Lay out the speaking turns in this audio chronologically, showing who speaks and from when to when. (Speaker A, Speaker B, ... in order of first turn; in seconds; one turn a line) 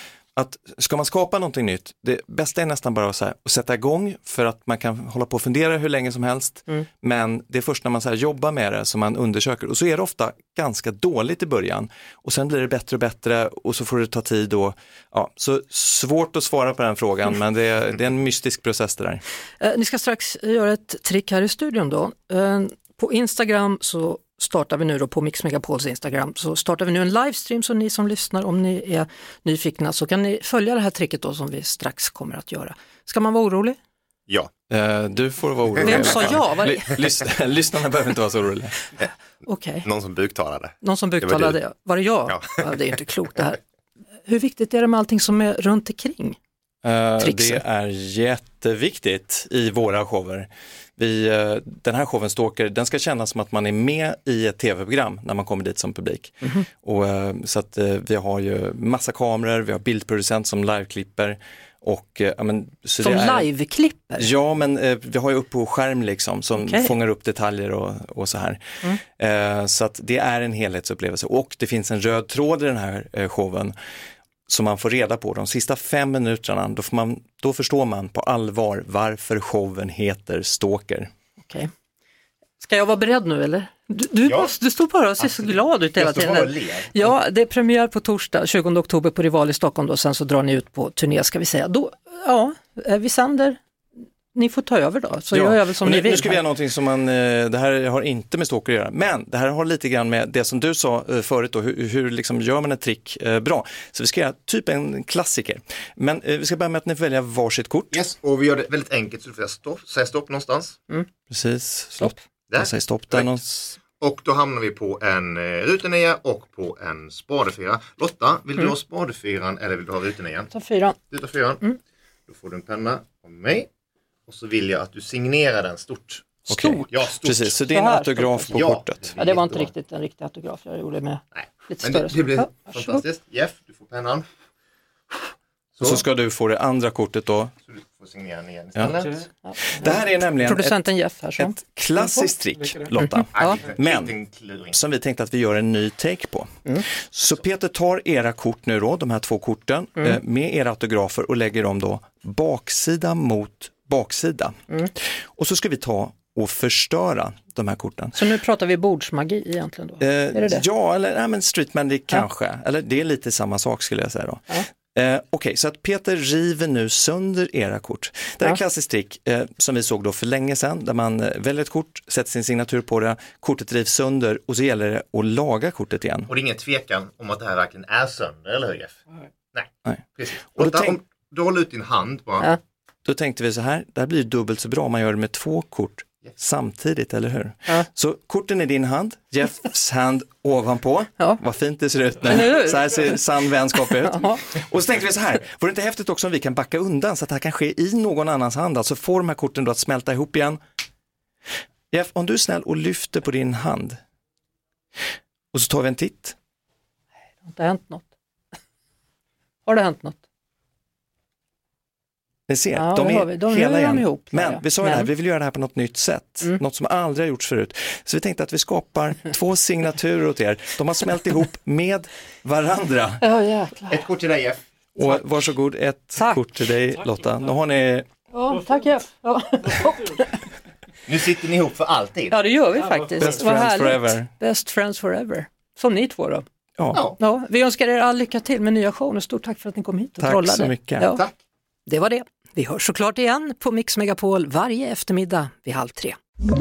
Speaker A: 0.3-19.2
Speaker B: 19.6-33.8
Speaker A: 34.7-38.8
Speaker B: 35.8-36.9
Speaker B: 39.4-39.9
Speaker C: 39.9-41.6
Speaker B: 40.8-43.6
Speaker C: 42.3-42.6
Speaker B: 44.3-46.4
Speaker A: 46.8-63.5
Speaker B: 47.2-47.6
Speaker B: 63.0-64.3
Speaker A: 64.2-73.7
Speaker B: 66.6-66.9
Speaker A: 74.5-81.1
Speaker B: 81.4-81.7
Speaker B: 82.6-93.6
Speaker C: 84.3-84.5
Speaker C: 85.2-87.1
Speaker B: 94.3-96.4
Speaker A: 95.3-108.0
Speaker C: 107.9-110.8
Speaker A: 111.3-113.8
Speaker C: 112.5-113.4
Speaker C: 113.9-120.5
Speaker B: 120.5-121.0
Speaker C: 121.1-121.6
Speaker C: 122.3-123.7
Speaker C: 124.3-127.6
Speaker B: 126.5-126.8
Speaker A: 126.5-129.1
Speaker B: 127.7-128.5
Speaker C: 128.5-129.7
Speaker B: 129.2-133.0
Speaker C: 131.3-134.2
Speaker C: 135.8-136.0
Speaker A: 135.8-137.5
Speaker C: 137.7-139.3
Speaker B: 139.4-142.3
Speaker A: 139.7-140.8
Speaker A: 141.4-144.1
Speaker B: 143.2-143.6
Speaker C: 143.3-144.8
Speaker A: 144.7-146.5
Speaker A: 147.1-154.6
Speaker A: 155.4-158.2
Speaker B: 158.2-160.7
Speaker A: 160.0-176.3
Speaker C: 176.3-179.0
Speaker C: 179.5-182.5
Speaker A: 180.6-181.0
Speaker A: 183.1-200.6
Speaker B: 192.3-193.1
Speaker B: 193.9-194.4
Speaker A: 201.9-204.0
Speaker A: 205.5-206.3
Speaker B: 207.4-208.1
Speaker B: 209.7-210.2
Speaker A: 212.5-223.2
Speaker B: 212.8-215.1
Speaker B: 223.2-224.0
Speaker C: 223.9-224.6
Speaker A: 224.9-228.1
Speaker B: 228.3-230.4
Speaker C: 231.1-232.4
Speaker B: 232.3-236.4
Speaker A: 233.2-234.3
Speaker B: 237.2-241.2
Speaker A: 240.2-241.1
Speaker B: 241.9-246.2